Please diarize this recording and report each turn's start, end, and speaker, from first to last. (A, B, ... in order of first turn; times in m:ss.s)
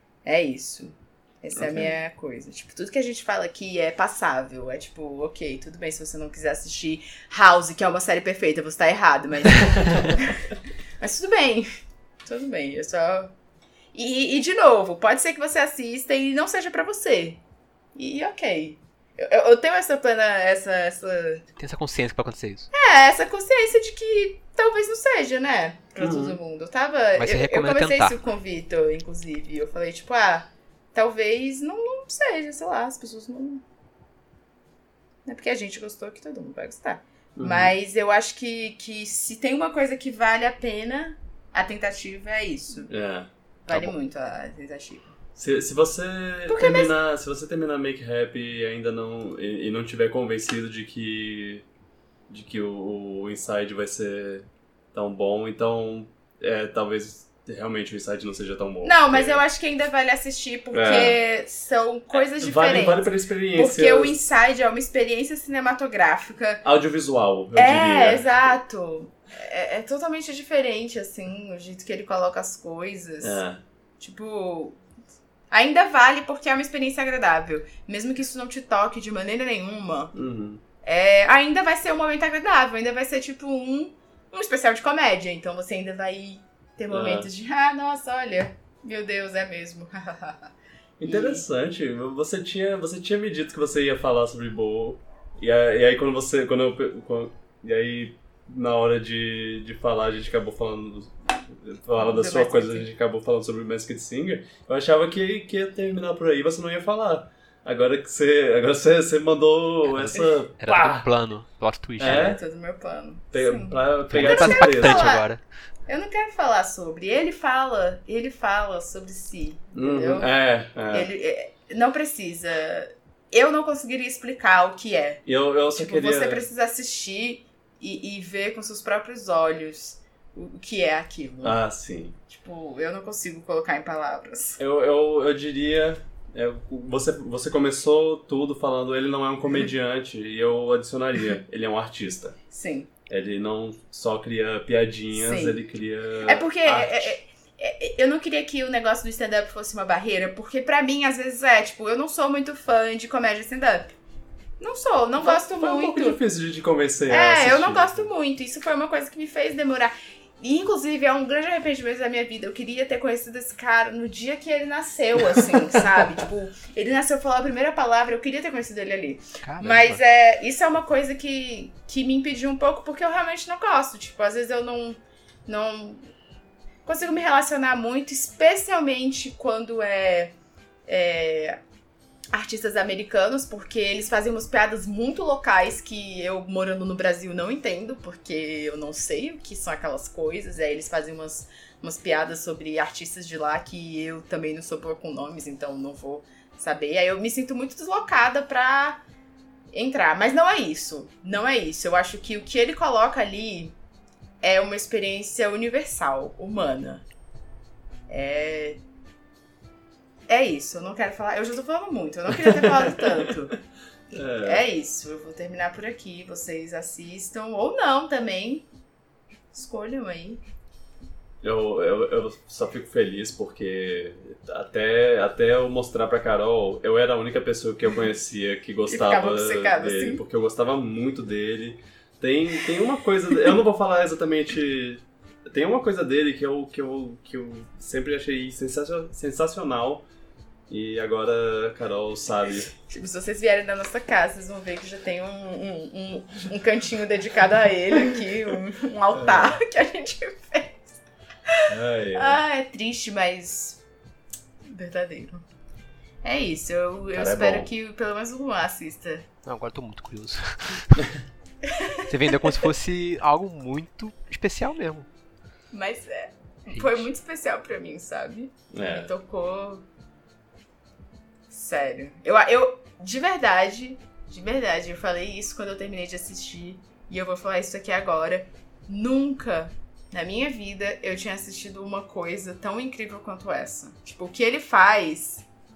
0:00.2-0:10.4 A
0:01.6-0:01.9 B
0:11.0-0:11.7 A
0:12.2-0:13.3 A
0:13.9-0:17.4 A
0:17.9-0:21.4 A
0:21.6-0:22.7 C
0:22.7-0:33.6 A
0:26.0-0:26.4 B
0:27.2-0:28.2 C
0:35.3-0:42.9 A
0:37.4-0:37.7 B
0:42.9-0:43.9 B
0:43.6-0:45.1 A
0:45.4-0:51.6 B
0:46.5-0:46.9 A
0:52.3-0:59.4 B
0:58.8-1:06.6 A
1:00.7-1:01.2 B
1:02.1-1:04.1 B
1:06.6-1:08.5 B
1:07.6-1:13.4 A
1:13.2-1:13.6 B
1:14.0-1:14.8 A
1:15.5-1:20.1 A
1:20.1-1:20.6 B
1:20.8-1:30.5 A
1:26.9-1:27.3 B
1:31.0-1:51.1 B
1:31.0-1:31.4 A
1:42.0-1:42.9 A
1:49.9-1:52.4 C
1:52.0-1:52.4 B
1:52.0-1:55.3 A
1:53.3-1:55.1 B
1:54.1-1:55.4 C
1:55.9-2:00.3 A
1:59.7-2:01.1 B
2:00.9-2:05.2 A
2:05.3-2:06.4 B
2:05.8-2:11.6 A
2:11.4-2:12.2 B
2:12.3-2:14.6 A
2:14.6-2:22.4 B
2:22.5-2:22.9 A
2:23.1-2:27.2 B
2:25.1-2:25.6 A
2:26.2-2:33.9 A
2:34.6-2:36.2 A
2:35.2-2:38.1 B
2:37.1-2:56.0 A
2:49.4-2:50.0 C
2:56.8-3:00.3 A
3:00.9-3:01.6 A
3:02.3-3:19.0 A
3:19.7-3:23.7 A
3:24.4-3:27.0 A
3:28.1-3:28.8 A
3:30.3-3:33.6 A
3:32.4-3:33.3 B
3:34.1-3:38.7 A
3:34.1-3:34.6 B
3:39.5-3:40.4 A
3:41.4-4:00.1 B
3:48.9-3:50.2 A
4:00.7-4:02.7 B
4:02.9-4:13.8 A
4:09.1-4:09.6 B
4:11.7-4:12.4 B
4:14.7-4:15.4 A
4:16.2-4:19.3 A
4:17.1-4:17.7 B
4:19.4-4:21.1 C
4:21.6-4:22.7 A
4:22.1-4:25.1 C
4:25.7-4:29.8 A
4:26.7-4:27.1 C
4:28.7-4:29.1 B
4:31.5-4:45.4 A